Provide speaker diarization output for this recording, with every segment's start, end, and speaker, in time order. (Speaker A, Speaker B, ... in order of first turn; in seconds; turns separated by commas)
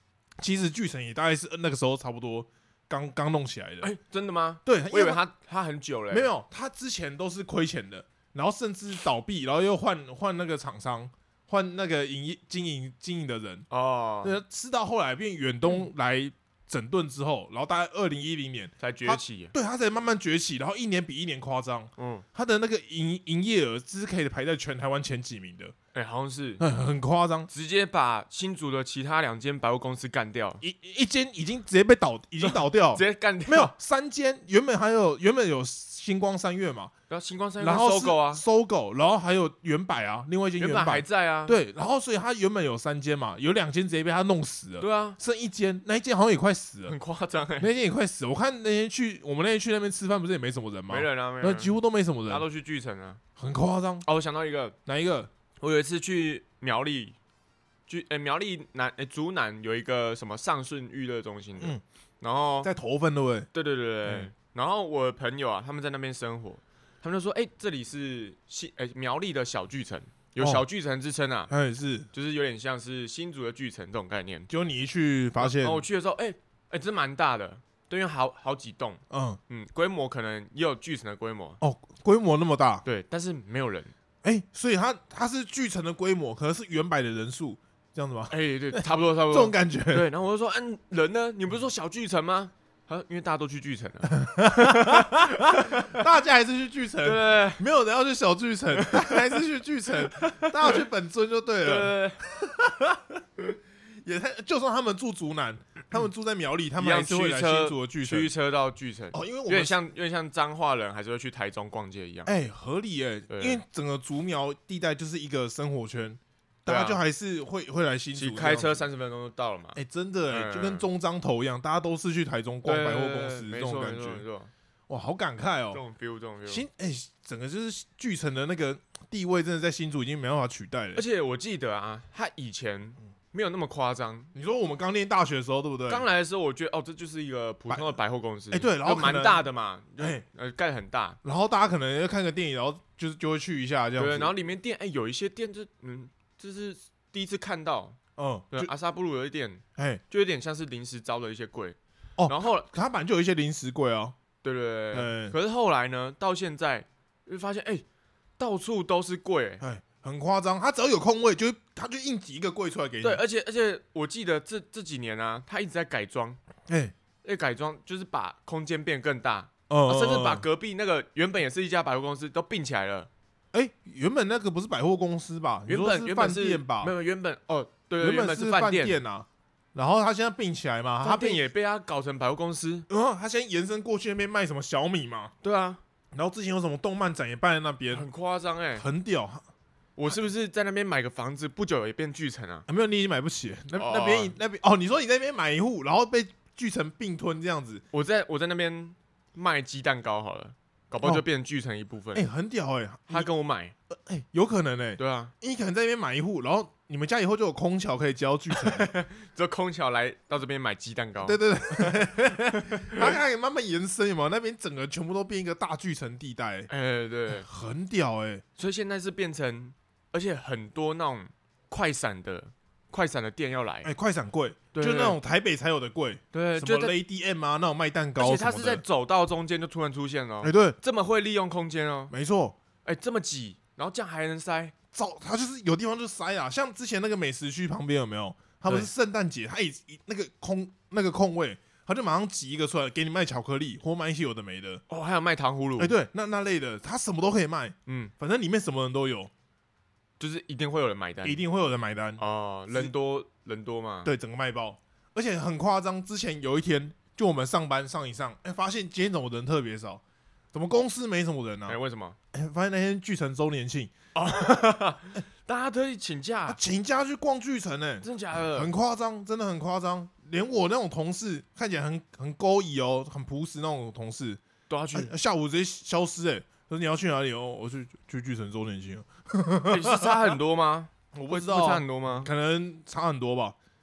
Speaker A: 0.4-3.9, Speaker B: 3.8-6.3, Speaker A: 4.6-5.2, Speaker A: 6.1-13.7, Speaker B: 13.7-14.4, Speaker A: 14.2-25.7, Speaker B: 18.8-19.5, Speaker B: 22.0-22.2, Speaker B: 25.9-26.6, Speaker A: 26.6-27.5, Speaker B: 27.5-30.6, Speaker A: 30.6-36.9, Speaker B: 32.4-33.7, Speaker B: 37.1-38.4, Speaker A: 37.6-46.9, Speaker B: 40.6-41.6, Speaker B: 44.8-45.2, Speaker B: 46.9-47.7, Speaker A: 47.6-52.5, Speaker B: 50.9-51.8, Speaker B: 52.3-53.2, Speaker A: 53.4-54.1, Speaker B: 54.0-54.8, Speaker A: 54.9-55.3, Speaker B: 55.6-57.1, Speaker B: 57.9-62.7, Speaker A: 62.6-63.5, Speaker B: 63.5-71.5, Speaker A: 70.4-70.6, Speaker A: 71.5-72.1, Speaker B: 72.1-74.5, Speaker A: 74.5-75.8, Speaker B: 75.4-81.6, Speaker A: 79.1-79.4, Speaker A: 81.6-82.8, Speaker B: 82.8-83.9, Speaker A: 84.2-90.1, Speaker B: 88.3-96.0, Speaker A: 94.1-103.2, Speaker B: 97.0-97.6, Speaker B: 98.8-99.2, Speaker B: 100.0-100.8, Speaker B: 101.6-102.2, Speaker A: 104.0-108.3, Speaker B: 106.8-112.3, Speaker A: 109.1-109.8, Speaker A: 112.3-118.9, Speaker B: 113.3-113.6, Speaker B: 116.7-117.0, Speaker B: 118.1-120.9, Speaker A: 119.8-124.2, Speaker B: 122.6-124.5, Speaker A: 124.9-125.8, Speaker B: 125.7-126.6, Speaker A: 126.5-131.0, Speaker B: 130.9-134.3, Speaker A: 134.3-136.1, Speaker B: 135.9-141.2, Speaker A: 137.7-137.9, Speaker A: 138.5-139.5, Speaker A: 140.0-140.2, Speaker A: 141.2-144.3, Speaker B: 144.0-148.0, Speaker A: 148.2-148.7, Speaker B: 148.5-152.7, Speaker A: 149.8-150.0, Speaker A: 152.2-154.2, Speaker B: 154.4-157.8, Speaker A: 154.9-155.3, Speaker B: 158.4-159.6, Speaker A: 159.6-163.2, Speaker B: 163.0-166.4, Speaker A: 166.7-166.9, Speaker B: 167.2-173.1, Speaker A: 169.7-170.4, Speaker A: 173.5-176.9, Speaker B: 175.7-179.0, Speaker A: 178.0-181.4, Speaker B: 181.0-182.9, Speaker A: 182.9-185.3, Speaker B: 185.4-185.8, Speaker A: 186.1-188.1, Speaker B: 187.9-188.9, Speaker A: 188.8-189.4, Speaker B: 190.0-192.7, Speaker A: 192.7-197.8, Speaker B: 193.7-194.3, Speaker B: 197.9-202.3, Speaker A: 202.1-203.3, Speaker B: 203.1-203.8, Speaker A: 203.9-208.9, Speaker B: 205.0-205.3, Speaker B: 208.5-213.1, Speaker A: 211.2-216.7, Speaker B: 216.7-217.5, Speaker A: 217.4-218.4, Speaker B: 218.6-223.9, Speaker A: 223.8-228.8, Speaker B: 224.7-225.2, Speaker B: 226.3-226.9, Speaker B: 228.2-232.1, Speaker A: 230.4-230.8, Speaker A: 232.1-232.6, Speaker B: 232.8-234.7, Speaker A: 234.9-244.8, Speaker B: 244.9-245.9, Speaker A: 245.8-249.3, Speaker B: 247.9-248.1, Speaker B: 250.2-251.4, Speaker A: 251.2-252.9, Speaker B: 252.2-254.1, Speaker A: 254.1-260.0, Speaker A: 260.5-261.8, Speaker B: 261.7-262.2, Speaker A: 262.3-263.9, Speaker B: 264.1-266.6, Speaker A: 266.5-274.4, Speaker B: 268.0-268.7, Speaker B: 274.7-275.1, Speaker A: 274.9-280.4, Speaker B: 279.7-282.3, Speaker A: 281.1-283.6